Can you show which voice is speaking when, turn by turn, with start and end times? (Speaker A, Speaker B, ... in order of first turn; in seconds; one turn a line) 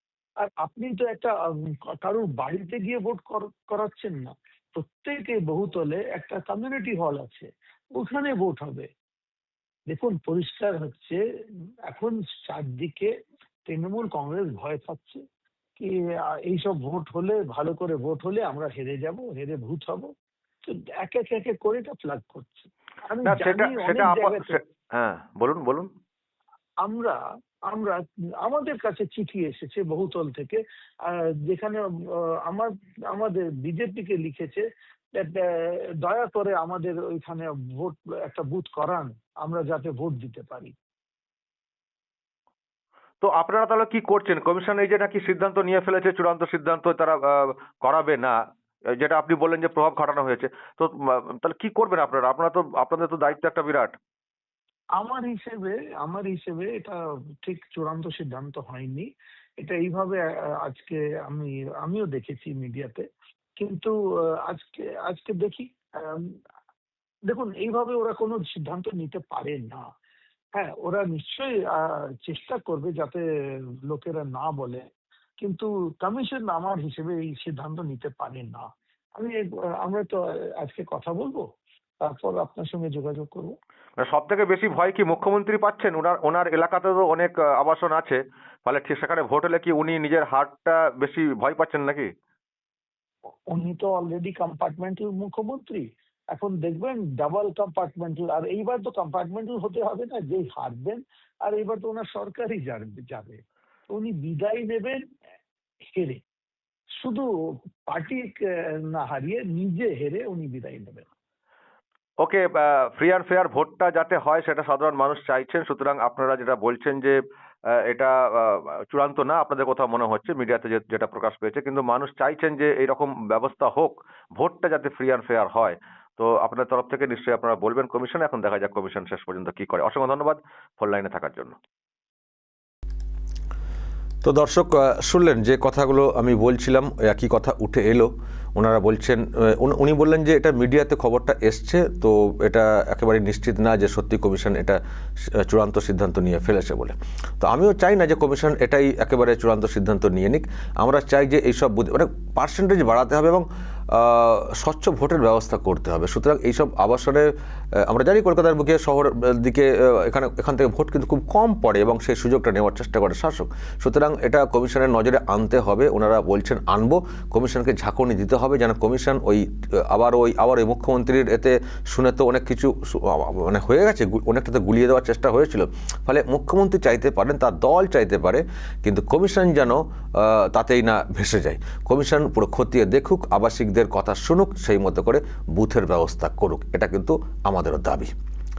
Speaker A: 0.4-8.9
Speaker A: 9.9-11.2
Speaker A: 11.9-13.1
Speaker A: 13.7-15.2
Speaker A: 16.5-20.1
Speaker A: 20.6-24.6
Speaker B: 23.2-25.9
Speaker A: 26.8-27.2
Speaker A: 27.7-34.6
Speaker A: 35.1-40.7
Speaker B: 43.2-48.3
Speaker B: 49.0-50.9
Speaker B: 51.4-53.9
Speaker C: 51.5-52.4
Speaker A: 55.0-59.1
Speaker A: 59.6-63.0
Speaker A: 63.6-63.9
Speaker A: 64.4-66.3
Speaker A: 67.3-69.8
Speaker A: 70.5-73.2
Speaker A: 73.9-74.8
Speaker A: 75.4-78.7
Speaker A: 79.2-81.4
Speaker A: 82.0-83.5
Speaker B: 84.0-88.1
Speaker C: 86.6-87.1
Speaker B: 88.7-92.1
Speaker C: 88.9-89.5
Speaker A: 93.5-105.0
Speaker A: 105.9-106.2
Speaker A: 107.0-107.3
Speaker A: 107.9-111.0
Speaker B: 112.2-117.1
Speaker C: 116.4-116.8
Speaker B: 118.9-131.5
Speaker C: 119.3-119.8
Speaker C: 120.9-122.0
Speaker C: 122.5-123.8
Speaker C: 124.7-125.4
Speaker C: 126.9-127.9
Speaker C: 128.5-130.1
Speaker C: 130.8-131.4
Speaker C: 134.2-157.3
Speaker C: 157.8-188.1